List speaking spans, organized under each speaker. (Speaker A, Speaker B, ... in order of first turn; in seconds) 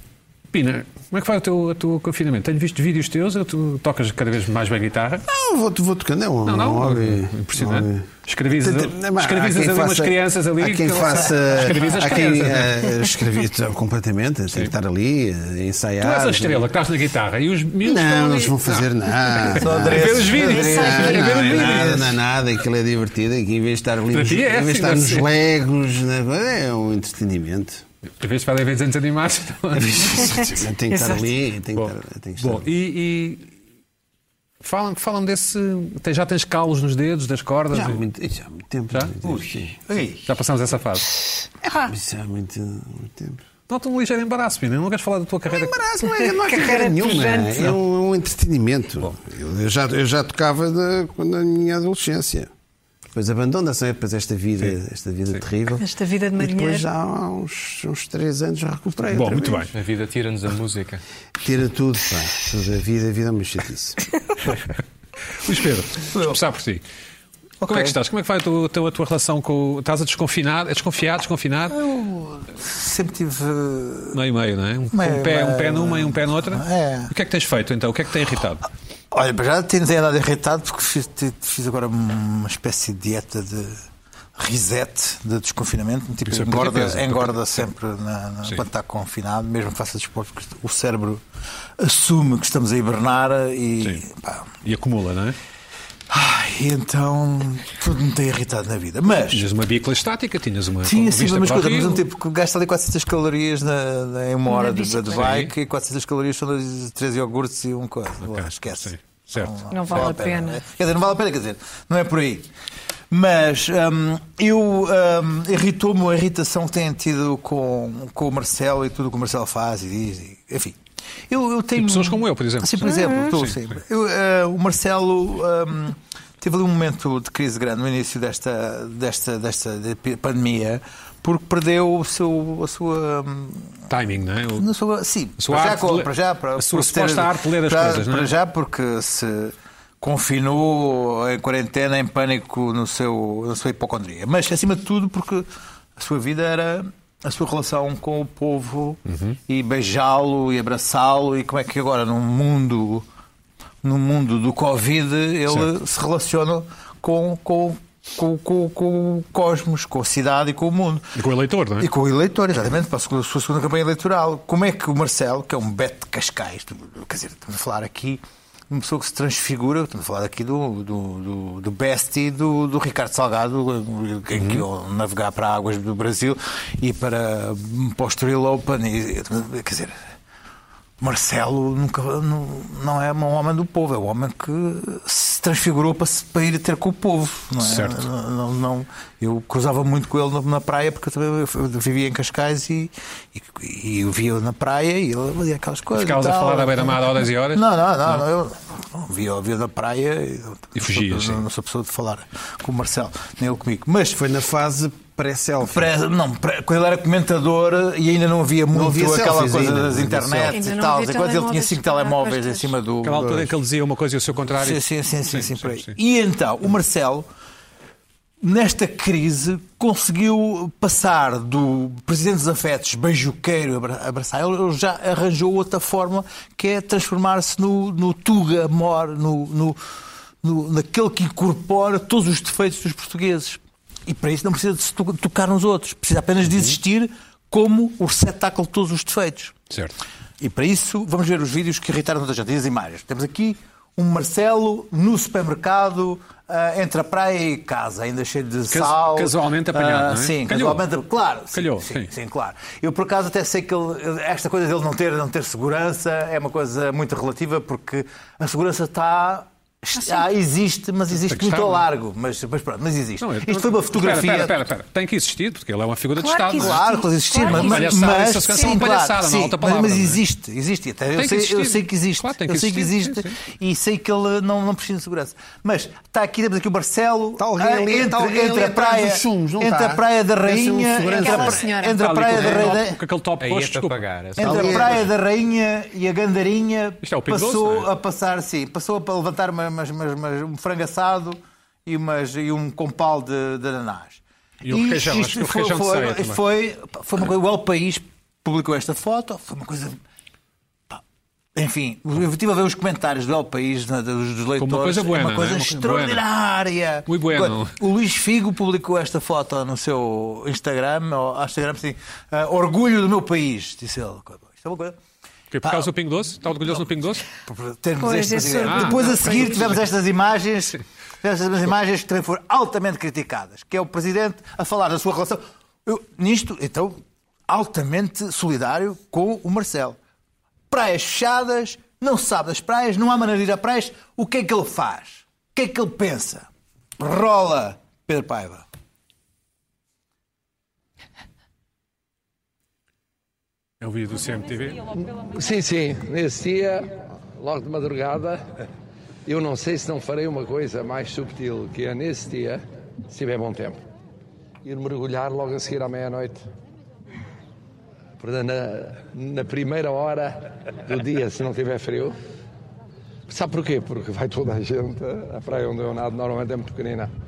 Speaker A: 0.5-5.2, 6.4-12.9, 16.0-22.2, 24.1-25.3, 28.2-30.6, 31.8-33.5, 34.6-38.0, 40.2-41.1, 43.7-45.8, 59.1-59.7, 65.4-66.8, 67.7-71.8, 74.1-78.7, 86.2-87.4, 94.6-95.4, 99.3-102.0, 105.1-105.5, 108.2-109.5, 121.8-123.8, 133.9-134.7, 135.4-138.3, 149.1-149.4, 161.2-161.9, 174.3-174.6, 187.6-188.1, 195.9-198.2, 200.8-201.4, 213.0-215.9, 239.7-239.9, 248.7-250.8, 251.5-252.1, 261.1-261.9, 263.2-266.8, 267.4-270.2, 271.1-273.4, 281.9-284.0, 287.0-287.9, 294.6-296.4, 304.6-306.2, 307.1-307.8, 315.5-317.2, 318.6-319.3, 343.8-344.8
Speaker B: 5.3-8.1, 8.6-16.7, 17.8-27.8, 29.8-32.7, 37.7-39.8, 41.9-43.4, 45.5-52.5, 53.1-55.9, 56.4-59.7, 61.4-64.1, 204.1-205.9, 208.7-210.6, 213.2-213.5, 277.4-281.7, 284.4-285.1
Speaker C: 19.6-21.8, 39.2-40.3, 66.0-66.4, 67.6-68.0, 71.7-74.2, 74.9-77.1, 79.1-83.8, 84.3-91.2, 91.8-94.5, 96.1-99.5, 100.8-112.5, 113.1-120.8, 121.3-133.8, 134.6-153.1, 153.8-161.2, 161.8-180.1, 181.0-204.2, 205.6-213.5, 214.5-217.3, 218.4-229.8, 230.4-239.6, 240.4-264.6, 266.6-283.0, 284.4-300.0, 301.6-315.0, 315.6-315.9, 317.4-330.0, 330.7-338.6
Speaker D: 30.9-31.2, 41.6-41.9, 46.3-47.7, 55.8-56.9, 104.5-105.3, 109.7-110.7, 122.8-123.3, 210.5-212.7, 260.0-260.2, 266.1-268.8, 281.1-281.9, 318.0-319.7
Speaker E: 59.7-61.0, 283.4-284.9
Speaker F: 345.0-348.4, 349.2-353.8, 354.6-356.4, 358.2-362.1, 363.3-367.1